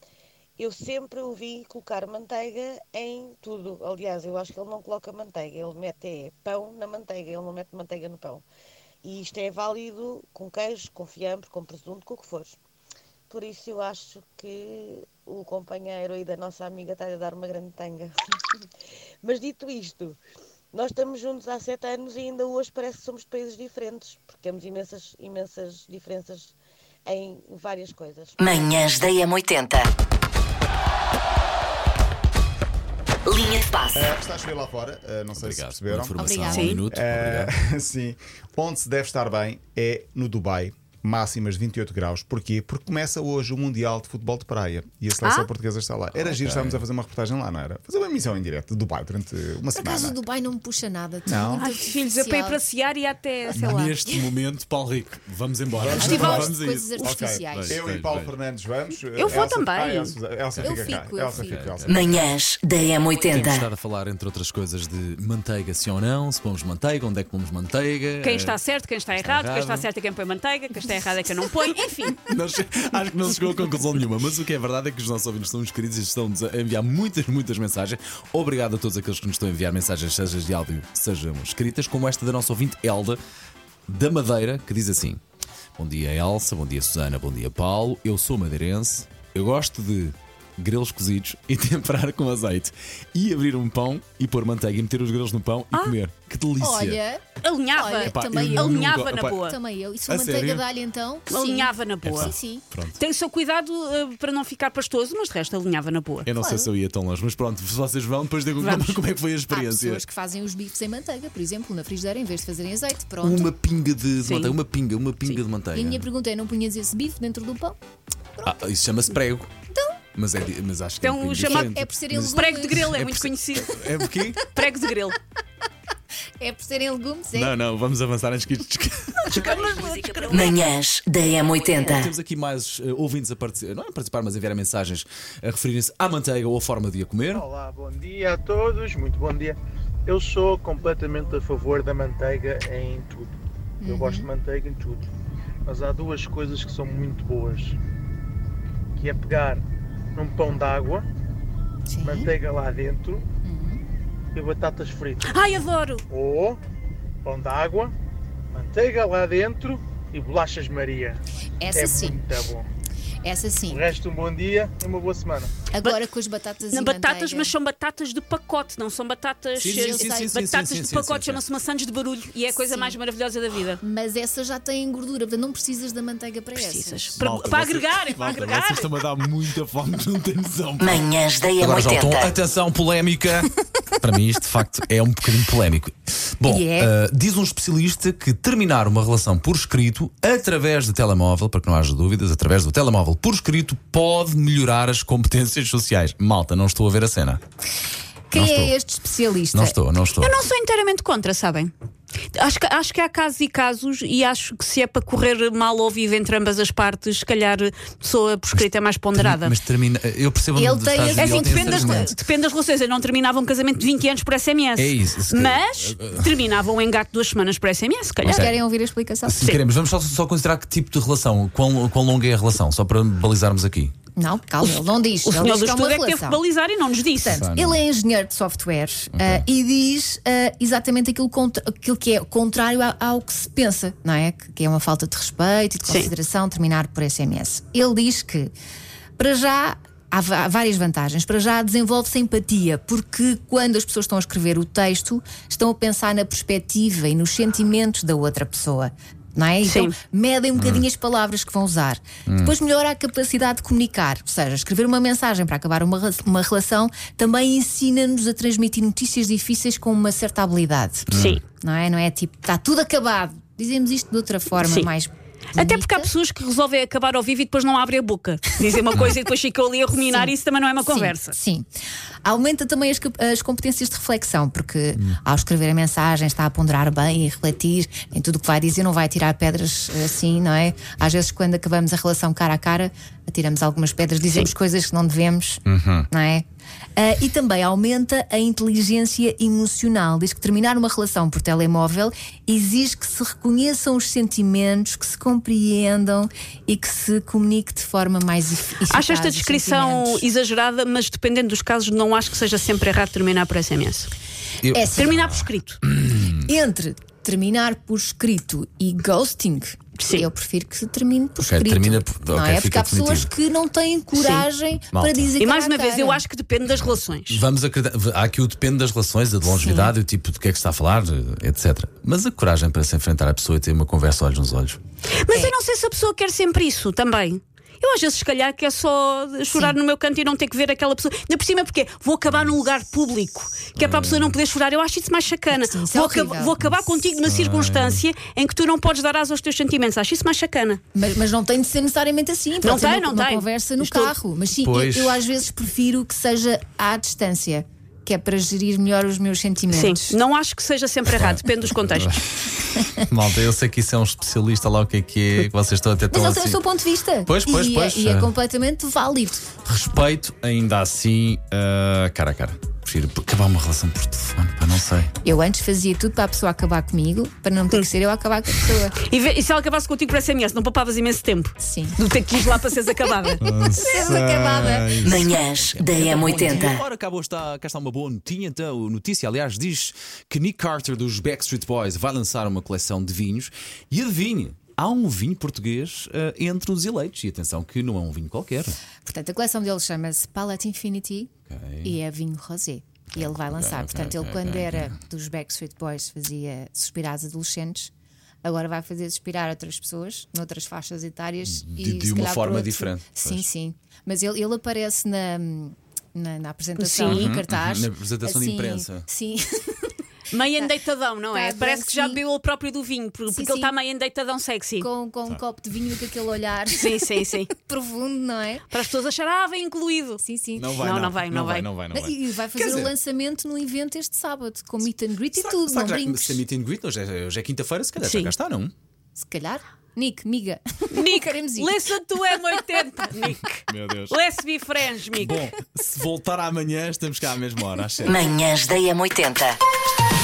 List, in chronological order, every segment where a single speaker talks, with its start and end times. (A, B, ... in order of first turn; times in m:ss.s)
0:00.6-0:08.4 A
0:09.0-0:12.6 A
0:13.3-0:18.1 A
0:19.2-0:20.2 A
0:20.7-0:28.5 A
0:28.4-0:29.9 B
0:33.3-0:34.0 B
0:33.9-0:50.2 C
0:35.3-0:37.5 D
0:36.2-0:36.8 E
0:36.5-0:36.8 F
0:45.2-0:45.5 F
0:46.1-0:46.8 D
0:49.8-0:52.6 E
0:51.3-0:51.7 C
0:51.6-0:54.0 F
0:53.5-0:58.3 D
0:55.7-1:02.3 C
0:55.9-0:57.8 E
0:56.0-0:56.5 F
0:59.2-1:00.1 F
1:00.5-1:02.2 D
1:00.6-1:01.6 E
1:01.9-1:03.6 B
1:03.3-1:08.6 D
1:08.2-1:12.2 F
1:09.2-1:09.9 D
1:12.2-1:23.2 D
1:23.9-1:25.2 D
1:25.8-1:37.0 D
1:36.6-1:38.8 E
1:37.4-1:39.6 F
1:38.0-1:39.4 D
1:39.4-1:42.6 E
1:40.1-1:40.6 D
1:41.3-1:42.3 F
1:42.0-1:43.0 D
1:43.0-1:46.3 F
1:46.2-1:50.0 D
1:46.4-1:46.7 E
1:48.6-1:49.0 F
1:49.5-1:53.5 E
1:53.2-1:56.0 D
1:54.2-1:54.6 F
1:55.3-1:57.8 E
1:58.4-1:58.6 E
1:58.4-1:59.5 D
1:59.7-2:00.0 E
2:00.1-2:04.5 D
2:01.0-2:01.7 F
2:01.4-2:02.8 E
2:02.3-2:03.7 F
2:04.4-2:05.2 F
2:06.4-2:07.5 E
2:07.3-2:10.5 D
2:09.2-2:10.7 F
2:09.8-2:12.1 B
2:11.7-2:17.5 D
2:17.3-2:25.0 G
2:23.8-2:24.3 E
2:25.7-2:27.8 G
2:29.0-2:29.6 G
2:30.2-2:31.0 G
2:31.9-2:32.3 E
2:32.0-2:33.2 G
2:33.4-2:33.8 E
2:34.3-2:35.4 G
2:35.3-2:36.0 F
2:36.1-2:36.6 G
2:37.2-2:37.9 G
2:38.5-2:41.2 G
2:41.6-2:42.2 E
2:41.7-2:42.6 G
2:43.2-2:43.8 E
2:43.7-2:45.5 G
2:45.7-2:47.5 E
2:46.7-2:53.8 F
2:49.6-2:51.4 D
2:49.6-2:50.3 E
2:52.5-2:53.0 E
2:53.8-2:57.1 E
2:56.6-2:58.9 F
2:57.1-3:17.4 D
3:00.8-3:02.3 B
3:06.5-3:06.9 E
3:18.3-3:19.8 E
3:18.3-3:18.7 D
3:19.5-3:20.3 D
3:20.2-3:21.7 F
3:22.3-3:29.5 F
3:28.6-3:32.1 D
3:30.6-3:32.1 E
3:31.1-3:38.5 F
3:34.8-3:36.3 D
3:38.2-3:38.6 D
3:38.2-3:39.4 E
3:39.2-3:43.9 D
3:44.2-3:46.4 E
3:44.6-3:47.4 F
3:47.2-3:58.5 E
3:47.2-3:47.8 D
3:49.1-3:49.4 D
3:59.2-4:26.1 E
4:09.6-4:09.9 F
4:10.6-4:10.8 D
4:12.3-4:12.5 D
4:21.1-4:21.4 D
4:21.2-4:21.4 F
4:24.6-4:24.9 F
4:25.5-4:31.4 F
4:30.9-4:31.6 E
4:32.2-4:46.4 E
4:45.6-4:46.1 D
4:47.0-5:00.2 E
4:58.9-5:04.1 F
5:04.6-5:06.4 D
5:04.7-5:05.1 E
5:05.0-5:05.8 F
5:06.1-5:16.2 E
5:10.0-5:10.3 F
5:11.4-5:13.3 D
5:14.2-5:14.5 F
5:14.9-5:15.3 D
5:15.4-5:17.4 F
5:16.7-5:24.8 D
5:25.2-5:40.8 F
5:33.8-5:34.4 D
5:35.5-5:36.5 E
5:36.6-5:38.0 D
5:40.9-5:50.1 E
5:42.6-5:44.1 F
5:44.6-5:45.2 D
5:49.7-5:52.2 F
5:51.1-5:56.6 D
5:56.1-5:59.5 E
5:57.3-5:58.3 D
5:59.6-6:05.1 D
6:05.2-6:08.9 E
6:09.0-6:13.4 F
6:11.6-6:12.0 E
6:13.4-6:28.8 D
6:13.8-6:15.0 E
6:15.0-6:16.8 B
6:16.4-6:16.6 E
6:29.0-6:31.3 E
6:31.5-6:32.0 D
6:31.8-6:37.9 E
6:33.1-6:35.0 D
6:38.4-6:49.9 E
6:41.4-6:43.4 D
6:46.8-6:47.3 F
6:47.1-6:49.1 D
6:50.3-6:54.9 F
6:51.3-6:52.2 E
6:53.3-6:53.7 E
6:54.8-6:57.0 E
6:56.7-6:57.5 F
6:57.6-6:58.6 E
6:58.7-7:00.2 F
7:00.2-7:00.7 E
7:00.6-7:02.9 D
7:00.7-7:01.7 F
7:01.9-7:06.4 E
7:05.3-7:08.7 D
7:08.0-7:08.3 F
7:09.1-7:11.7 E
7:10.9-7:15.4 F
7:13.7-7:14.2 D
7:15.1-7:18.2 D
7:18.0-7:19.6 B